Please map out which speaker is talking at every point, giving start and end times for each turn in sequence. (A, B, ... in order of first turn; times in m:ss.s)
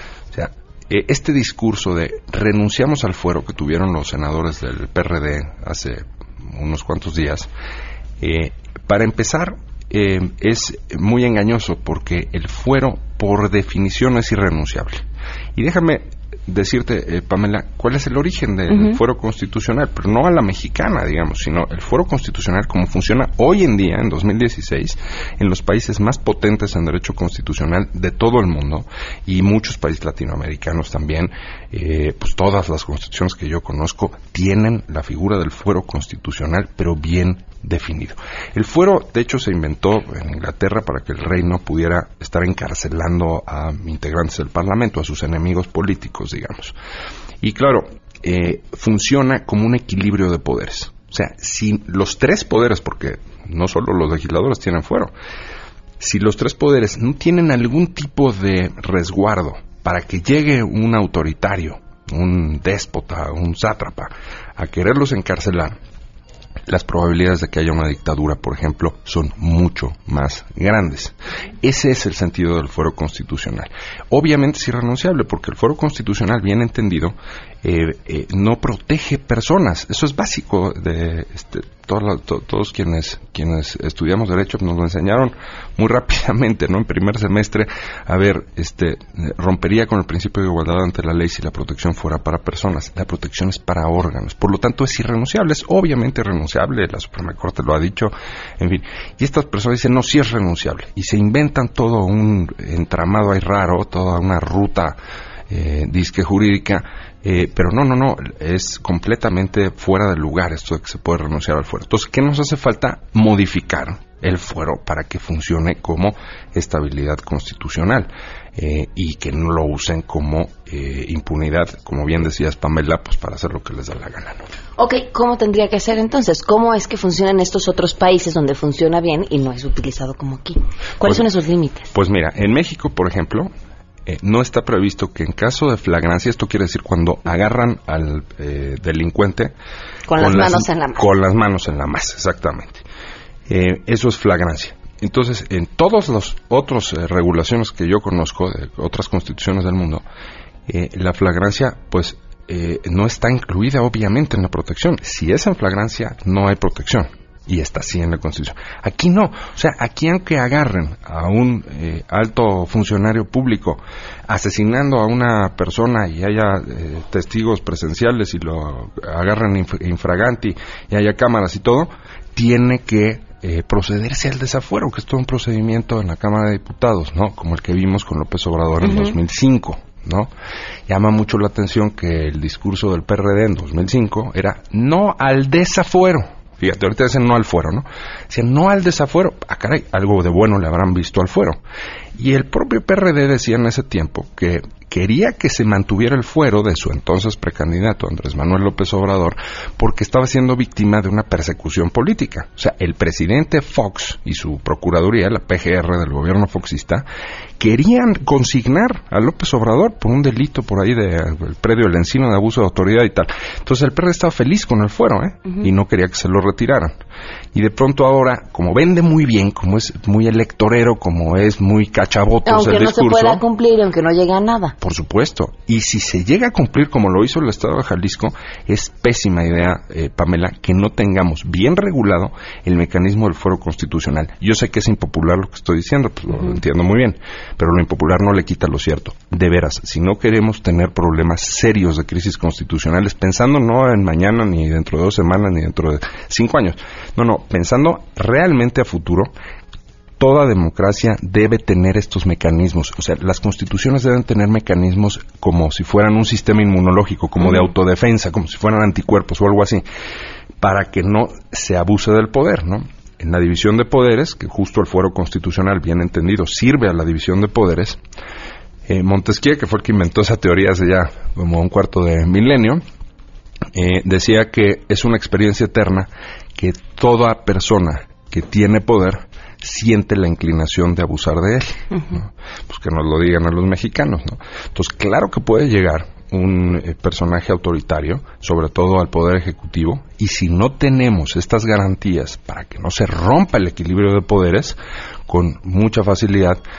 0:00.3-0:07.5 A
0:08.2-0:15.0 A
0:15.6-0:46.8 A
0:18.7-0:19.0 B
0:47.4-0:55.1 A
0:56.0-1:05.8 A
1:06.7-1:45.0 A
1:45.5-2:04.4 A
2:04.8-2:11.9 B
2:11.9-2:13.5 A
2:14.1-2:19.5 A
2:20.1-2:21.1 B
2:20.2-2:22.8 A
2:23.5-2:30.0 A
2:30.7-3:00.3 A
2:58.8-2:59.2 B
3:00.9-3:11.6 A
3:12.2-3:27.0 A
3:27.6-3:37.0 A
3:37.5-3:43.4 A
3:42.5-3:44.8 B
3:44.8-4:09.3 A
4:10.2-4:19.8 A
4:20.6-4:28.0 A
4:28.9-4:32.8 A
4:33.7-4:56.6 A